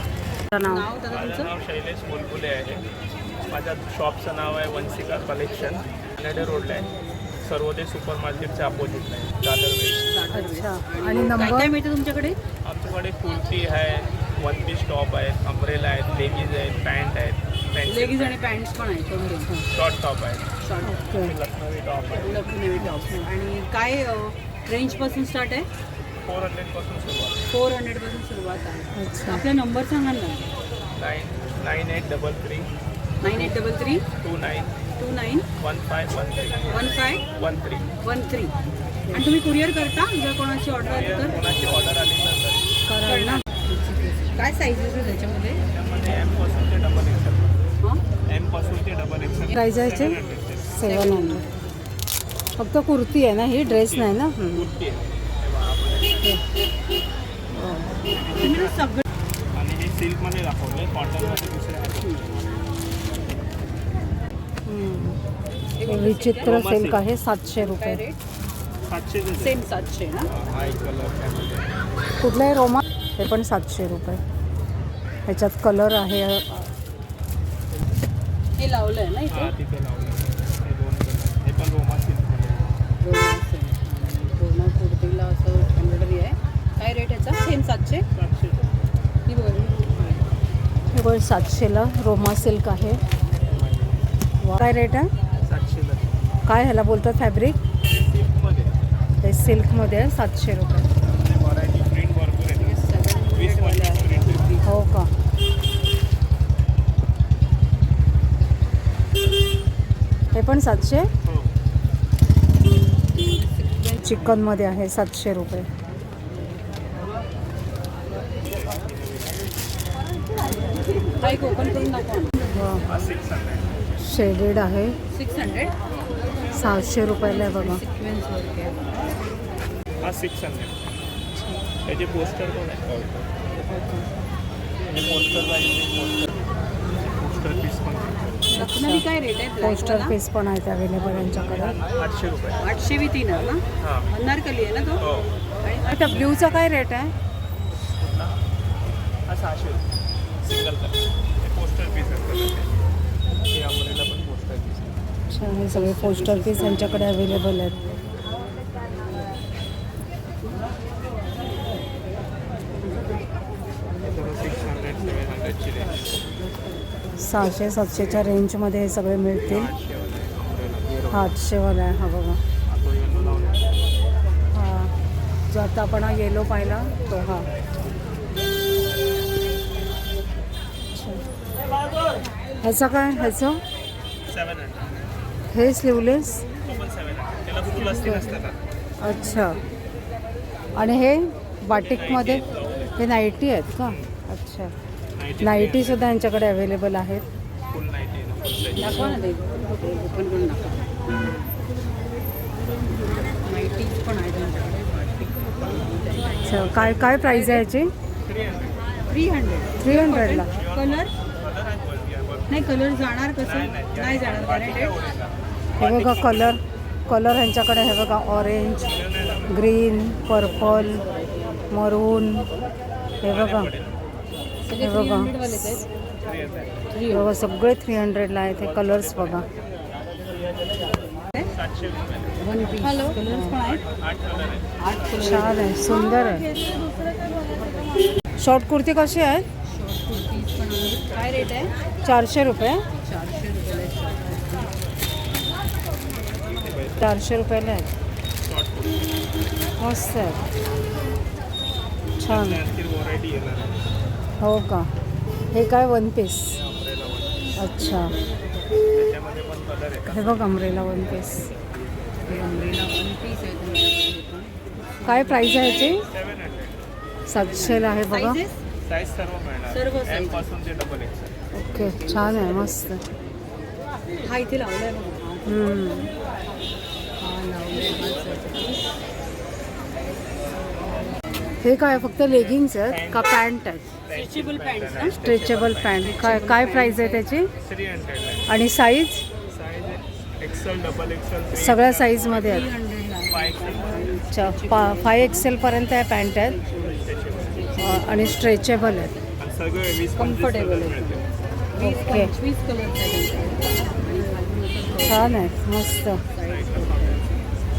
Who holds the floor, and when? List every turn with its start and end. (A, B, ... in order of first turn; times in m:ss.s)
0:00.5-0:00.9 A
0:00.6-0:01.5 B
0:01.1-0:02.9 C
0:03.4-0:06.9 C
0:07.4-0:10.1 C
0:10.1-0:12.4 B
0:10.3-0:11.7 A
0:12.6-0:18.4 C
0:17.9-0:19.5 B
0:19.7-0:20.5 C
0:20.6-0:21.0 B
0:20.8-0:21.4 A
0:21.2-0:22.5 C
0:22.2-0:25.7 B
0:22.8-0:23.3 A
0:26.2-0:27.4 C
0:27.5-0:30.5 B
0:29.0-0:29.4 A
0:31.0-0:32.7 C
0:33.2-0:34.0 B
0:33.3-0:33.5 A
0:34.2-0:34.8 C
0:35.0-0:35.5 B
0:35.6-0:37.9 C
0:36.7-0:37.2 B
0:38.0-0:38.5 B
0:39.1-0:39.3 A
0:39.1-0:41.5 B
0:40.8-0:42.7 C
0:42.9-0:43.4 A
0:43.0-0:45.6 B
0:45.7-0:47.5 C
0:48.3-0:50.8 C
0:49.5-0:51.4 A
0:50.8-0:51.8 B
0:52.6-0:54.7 A
0:53.7-0:56.2 C
0:57.5-0:58.0 A
0:58.1-0:58.9 C
0:58.4-0:59.0 B
0:59.5-1:02.4 C
1:02.0-1:02.2 B
1:04.7-1:05.2 A
1:05.8-1:06.6 B
1:05.8-1:08.0 A
1:06.4-1:07.1 C
1:07.6-1:08.2 B
1:08.9-1:09.6 C
1:09.3-1:10.3 B
1:10.3-1:11.7 C
1:12.2-1:14.2 A
1:15.3-1:16.7 A
1:18.6-1:19.5 B
1:19.3-1:22.8 C
1:23.0-1:28.0 B
1:28.1-1:28.8 C
1:29.3-1:30.2 B
1:30.9-1:33.0 A
1:33.4-1:34.1 C
1:34.4-1:35.1 A
1:35.4-1:36.2 C
1:36.5-1:37.6 A
1:37.9-1:38.8 C
1:39.2-1:40.9 A
1:41.0-1:42.7 C
1:42.5-1:44.7 B
1:43.3-1:44.5 C
1:44.6-1:45.1 A
1:50.3-1:51.1 A
1:51.2-1:51.5 C
1:53.0-1:54.4 B
1:54.0-1:55.7 A
2:01.2-2:02.3 B
2:02.5-2:02.9 A
2:02.9-2:03.7 C
2:04.0-2:05.0 A
2:05.1-2:05.8 B
2:06.5-2:07.8 A
2:07.2-2:08.8 B
2:10.0-2:10.8 C
2:11.3-2:11.7 A
2:11.8-2:13.3 C
2:13.7-2:14.1 A
2:14.8-2:18.6 C
2:18.5-2:19.0 A
2:18.5-2:20.2 B
2:19.6-2:21.8 A
2:21.0-2:22.6 C
2:22.6-2:25.0 B
2:23.8-2:24.1 C
2:25.0-2:25.3 C
2:25.6-2:26.3 B
2:25.9-2:27.1 A
2:27.8-2:28.4 C
2:29.3-2:29.8 C
2:30.4-2:32.7 C
2:33.5-2:34.9 C
2:35.3-2:37.8 A
2:35.7-2:37.2 B
2:44.0-2:46.1 C
2:47.2-2:49.7 A
2:49.4-2:51.3 C
2:51.1-2:52.4 A
2:52.7-2:53.6 C
2:54.5-2:54.9 A
2:55.5-2:57.5 A
3:00.9-3:01.2 A
3:02.6-3:03.6 A
3:04.3-3:05.0 C
3:05.5-3:06.4 A
3:06.6-3:08.6 C
3:09.0-3:09.6 A
3:10.8-3:12.4 A
3:11.7-3:13.0 C
3:13.0-3:14.7 A
3:13.8-3:14.2 C
3:15.2-3:16.1 C
3:15.4-3:17.2 A
3:17.7-3:19.0 C
3:18.8-3:21.2 B
3:18.9-3:19.2 A
3:23.3-3:26.6 B
3:26.4-3:27.4 C
3:26.4-3:27.9 A
3:27.2-3:27.6 B
3:28.2-3:28.8 C
3:29.1-3:31.1 B
3:29.8-3:30.5 A
3:30.4-3:32.8 C
3:32.5-3:35.0 B
3:33.4-3:36.6 C
3:35.8-3:38.9 A
3:38.8-3:39.6 C
3:39.5-3:41.0 A
3:40.6-3:41.6 B
3:41.7-3:42.5 A
3:43.2-3:43.7 A
3:43.2-3:44.0 C
3:44.6-3:45.8 B
3:44.8-3:45.9 A
3:46.2-3:46.9 C
3:46.9-3:47.3 B
3:47.1-3:49.4 A
3:48.5-3:49.5 C
3:51.5-3:52.4 C
3:52.4-3:53.8 B
3:52.8-3:53.5 A
3:53.7-3:54.7 C
3:54.8-3:55.9 B
3:55.1-3:56.5 A
3:58.4-3:59.5 A
3:59.6-4:01.7 B
4:02.0-4:02.8 A
4:03.0-4:04.7 B
4:06.6-4:07.1 C
4:07.0-4:07.9 A
4:08.4-4:09.1 C
4:09.8-4:10.4 A
4:12.2-4:12.6 A
4:12.3-4:13.8 C
4:14.4-4:14.9 A
4:15.5-4:16.6 A
4:16.5-4:17.6 C
4:17.6-4:18.1 A
4:18.9-4:20.5 C
4:20.1-4:21.5 A
4:22.2-4:26.0 B
4:22.3-4:22.5 C
4:25.0-4:26.0 A
4:26.1-4:26.8 C
4:27.3-4:28.4 A
4:27.3-4:28.6 B
4:28.8-4:31.4 C
4:29.7-4:30.4 B
4:31.5-4:33.0 A
4:31.6-4:33.0 B
4:34.2-4:36.0 B
4:35.5-4:36.1 A
4:37.2-4:38.9 B
4:41.6-4:43.9 A
4:42.8-4:43.4 C
4:44.0-4:46.1 C
4:44.1-4:45.2 B
4:45.2-4:47.5 A
4:46.0-4:47.2 B
4:47.6-4:48.6 C
4:48.5-4:49.3 A
4:49.5-4:52.7 C
4:51.5-4:52.7 A
4:52.3-4:55.5 B
4:53.2-4:54.2 C
4:54.3-4:56.6 A
4:56.4-4:58.5 B
4:56.7-4:57.9 C
4:57.8-4:59.1 A
4:59.4-5:01.2 C
5:00.2-5:01.2 B
5:01.7-5:05.5 B
5:01.8-5:02.3 A
5:05.1-5:06.2 A
5:06.3-5:07.4 B
5:06.4-5:07.2 C